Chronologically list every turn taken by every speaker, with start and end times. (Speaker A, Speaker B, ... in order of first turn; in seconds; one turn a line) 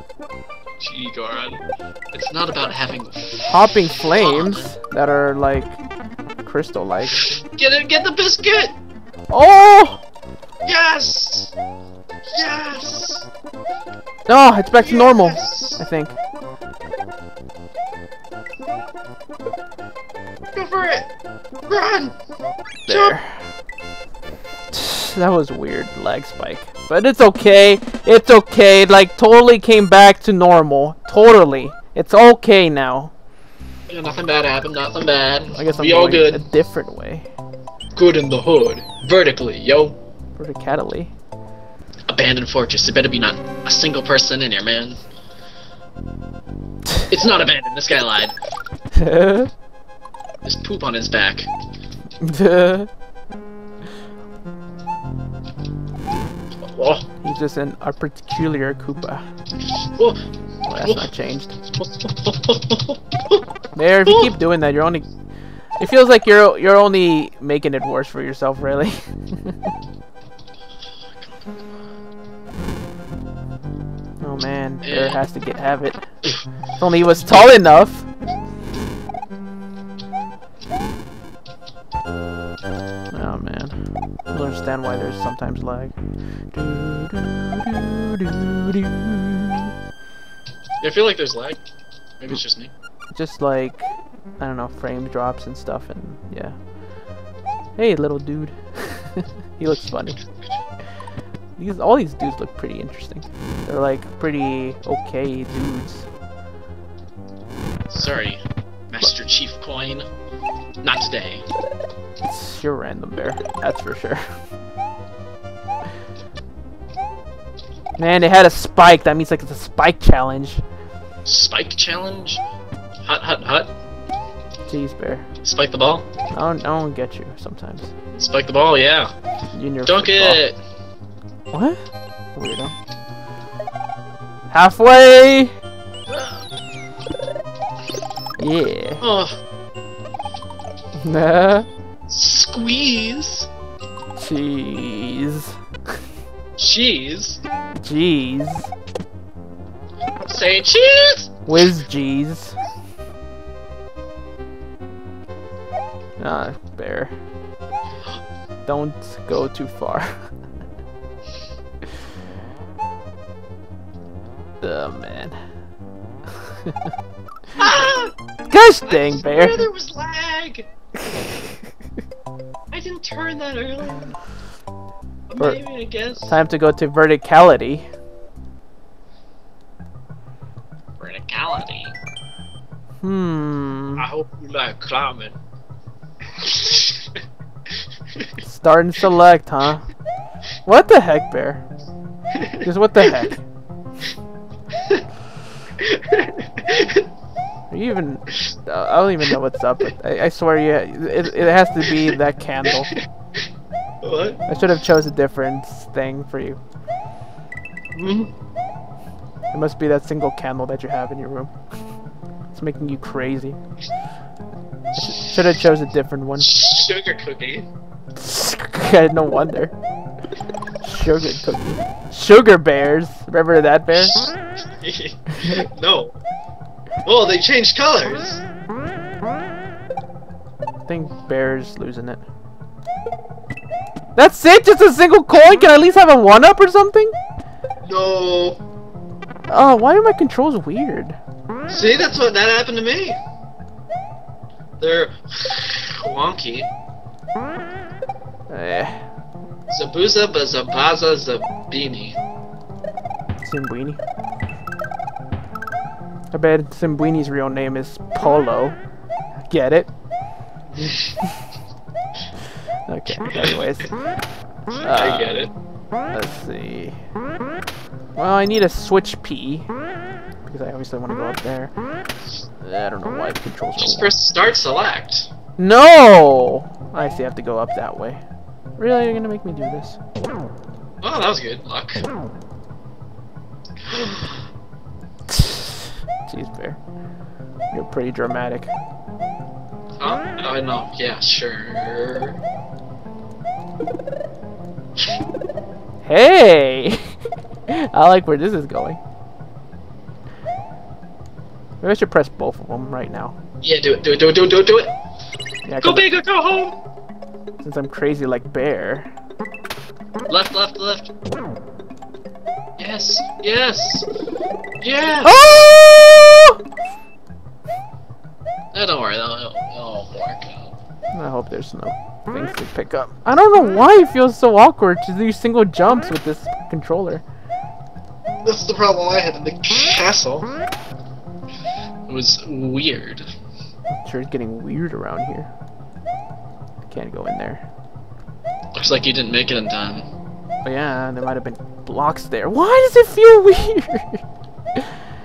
Speaker A: 0.8-4.7
Speaker B: 3.4-5.8
Speaker B: 6.4-7.2
Speaker A: 7.1-8.7
Speaker B: 9.3-10.0
Speaker A: 10.6-11.5
Speaker A: 12.3-13.2
Speaker B: 14.3-16.2
Speaker A: 14.7-15.8
Speaker A: 20.5-21.1
Speaker A: 21.7-22.1
Speaker A: 22.9-23.2
Speaker B: 22.9-23.5
Speaker B: 24.7-33.1
Speaker A: 33.9-36.4
Speaker B: 35.5-37.3
Speaker A: 37.9-40.0
Speaker B: 40.4-41.1
Speaker A: 42.1-45.0
Speaker A: 47.1-48.3
Speaker B: 48.9-49.5
Speaker A: 50.4-51.5
Speaker B: 52.2-52.9
Speaker A: 56.6-57.0
Speaker B: 57.2-59.2
Speaker B: 60.6-61.6
Speaker A: 60.8-61.1
Speaker A: 61.7-63.4
Speaker B: 63.7-65.1
Speaker A: 64.0-64.3
Speaker B: 65.8-69.7
Speaker A: 71.2-71.5
Speaker B: 74.2-76.1
Speaker A: 74.8-75.2
Speaker B: 76.8-78.1
Speaker B: 83.1-83.8
Speaker B: 84.3-86.0
Speaker B: 86.5-89.7
Speaker A: 90.8-91.6
Speaker A: 92.2-92.7
Speaker B: 93.1-96.5
Speaker B: 97.8-100.2
Speaker B: 101.6-106.1
Speaker A: 107.9-110.1
Speaker A: 110.8-111.4
Speaker B: 112.2-114.2
Speaker B: 118.0-120.6
Speaker A: 121.2-122.4
Speaker A: 123.0-123.7
Speaker B: 124.7-125.2
Speaker A: 125.4-126.1
Speaker B: 126.3-127.9
Speaker A: 128.1-129.1
Speaker B: 129.5-130.4
Speaker A: 129.8-130.6
Speaker B: 131.5-131.8
Speaker B: 132.3-132.8
Speaker B: 134.5-135.5
Speaker B: 138.4-139.0
Speaker A: 139.0-139.4
Speaker B: 141.0-141.7
Speaker A: 142.1-143.5
Speaker B: 144.2-145.6
Speaker A: 146.6-147.4
Speaker B: 147.8-148.7
Speaker A: 150.2-151.3
Speaker B: 151.4-152.6
Speaker B: 156.2-157.1
Speaker B: 158.6-160.1
Speaker B: 164.6-165.4
Speaker B: 166.4-166.8
Speaker A: 167.6-168.1
Speaker B: 168.5-169.6
Speaker A: 168.8-170.7
Speaker A: 172.7-174.1
Speaker A: 175.3-176.3
Speaker B: 176.2-177.9
Speaker A: 181.0-181.9
Speaker B: 183.0-184.1
Speaker A: 184.0-185.4
Speaker A: 186.4-187.2
Speaker B: 188.4-189.8
Speaker B: 190.6-191.6
Speaker B: 192.6-193.4
Speaker A: 195.8-197.1
Speaker B: 197.7-202.9
Speaker A: 204.0-204.4
Speaker B: 204.5-206.6
Speaker A: 207.9-208.3
Speaker B: 209.5-211.5
Speaker B: 212.5-213.6
Speaker B: 214.9-216.6
Speaker A: 216.4-217.7
Speaker B: 218.2-219.7
Speaker B: 220.8-224.3
Speaker A: 224.8-226.1
Speaker A: 227.0-228.4
Speaker B: 230.8-232.2
Speaker B: 234.1-237.1
Speaker A: 237.8-238.6
Speaker B: 239.5-241.2
Speaker A: 241.7-243.2
Speaker A: 244.8-246.7
Speaker B: 248.5-249.0
Speaker A: 249.7-252.2
Speaker B: 253.4-254.0
Speaker B: 256.3-258.8
Speaker B: 259.5-259.9
Speaker A: 260.8-261.1
Speaker B: 262.9-263.9
Speaker A: 263.3-263.6
Speaker B: 264.8-265.5
Speaker A: 264.8-265.5
Speaker B: 266.1-267.0
Speaker B: 268.1-269.7
Speaker B: 270.4-271.7
Speaker B: 272.6-274.1
Speaker A: 273.8-275.3
Speaker B: 275.6-278.2
Speaker B: 278.8-280.0
Speaker A: 281.0-282.0
Speaker A: 283.9-284.4
Speaker B: 285.3-286.8
Speaker B: 287.7-288.7
Speaker A: 290.0-292.4
Speaker B: 296.0-297.0
Speaker B: 297.7-299.0
Speaker B: 301.8-303.4
Speaker A: 303.6-304.9
Speaker B: 305.6-306.1
Speaker A: 305.8-306.8
Speaker B: 307.6-309.1
Speaker A: 310.3-311.1
Speaker A: 312.8-314.1
Speaker A: 314.8-315.5
Speaker B: 315.2-316.6
Speaker A: 318.7-320.7
Speaker B: 321.1-327.2
Speaker A: 328.4-330.5
Speaker A: 332.1-333.2
Speaker B: 333.9-335.5
Speaker B: 336.8-337.6
Speaker A: 338.7-340.1
Speaker B: 340.6-344.2
Speaker B: 344.7-345.0